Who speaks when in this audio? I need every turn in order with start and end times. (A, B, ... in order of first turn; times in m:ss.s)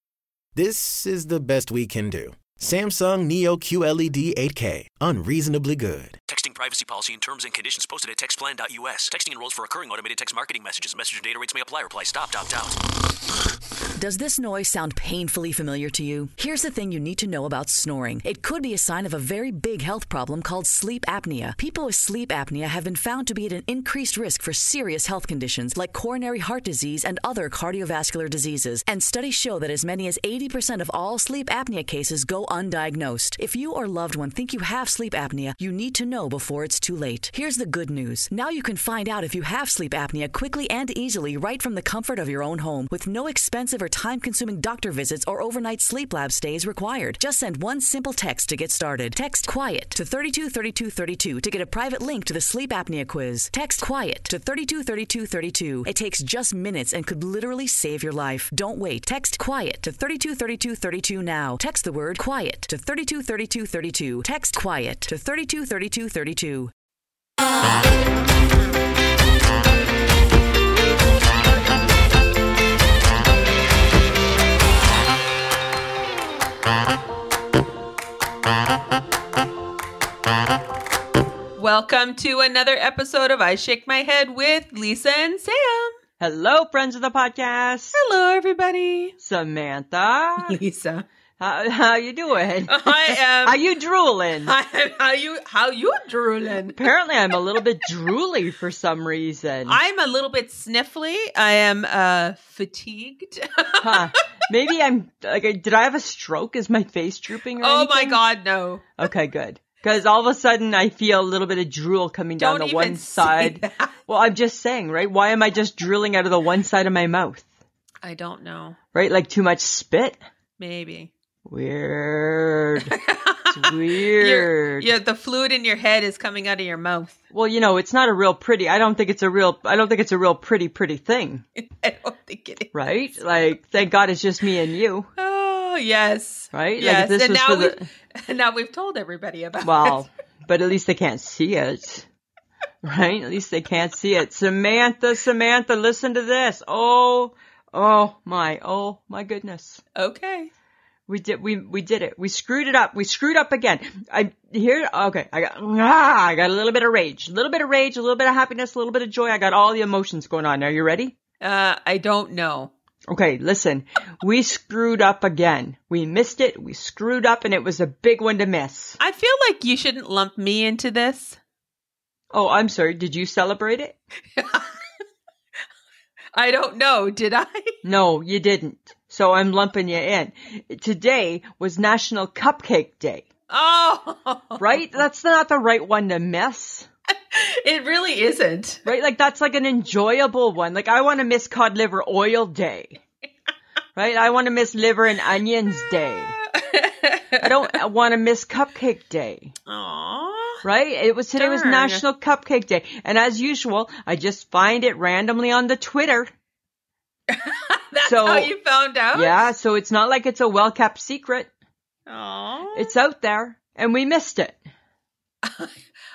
0:00.5-0:06.2 A
0:06.3-0:12.8 B
0:14.0-1:06.7 C
1:21.6-1:26.0 D
1:26.2-1:28.0 E
1:27.9-1:29.1 D
1:29.2-1:30.6 E
1:30.4-1:31.0 D
1:31.4-1:32.9 E
1:32.7-1:33.6 D
1:33.4-1:34.5 E
1:34.4-1:36.8 D
1:36.8-1:39.8 E
1:39.7-1:44.2 D
1:43.8-1:48.2 E
1:47.6-1:48.9 D
1:49.0-1:57.5 E
1:52.4-1:53.9 D
1:58.0-1:58.8 D
1:58.9-2:00.2 E
2:00.6-2:01.1 D
2:01.4-2:02.9 E
2:02.8-2:07.2 D
2:03.5-2:04.9 E
2:07.3-2:11.4 E
2:11.6-2:12.7 D
2:12.7-2:15.1 E
2:15.2-2:20.0 D
2:16.5-2:17.8 E
2:19.6-2:22.1 E
2:22.8-2:29.8 E
2:30.0-2:30.5 D
2:31.1-2:41.1 E
2:41.4-2:42.7 D
2:43.1-2:49.0 E
2:49.0-2:51.4 D
2:52.3-2:54.0 E
2:54.4-2:54.8 D
2:56.3-2:57.8 D
2:57.8-3:03.2 E
3:03.5-3:04.8 D
3:04.6-3:06.9 E
3:07.3-3:08.8 D
3:08.8-3:13.0 E
3:14.0-3:16.4 E
3:16.5-3:17.8 D
3:17.4-3:19.5 E
3:19.7-3:20.6 D
3:20.6-3:26.3 E
3:21.4-3:22.0 D
3:27.3-3:29.5 D
3:28.0-3:28.5 E
3:29.1-3:31.5 E
3:32.1-3:32.9 D
3:32.8-3:34.6 E
3:35.4-3:35.7 D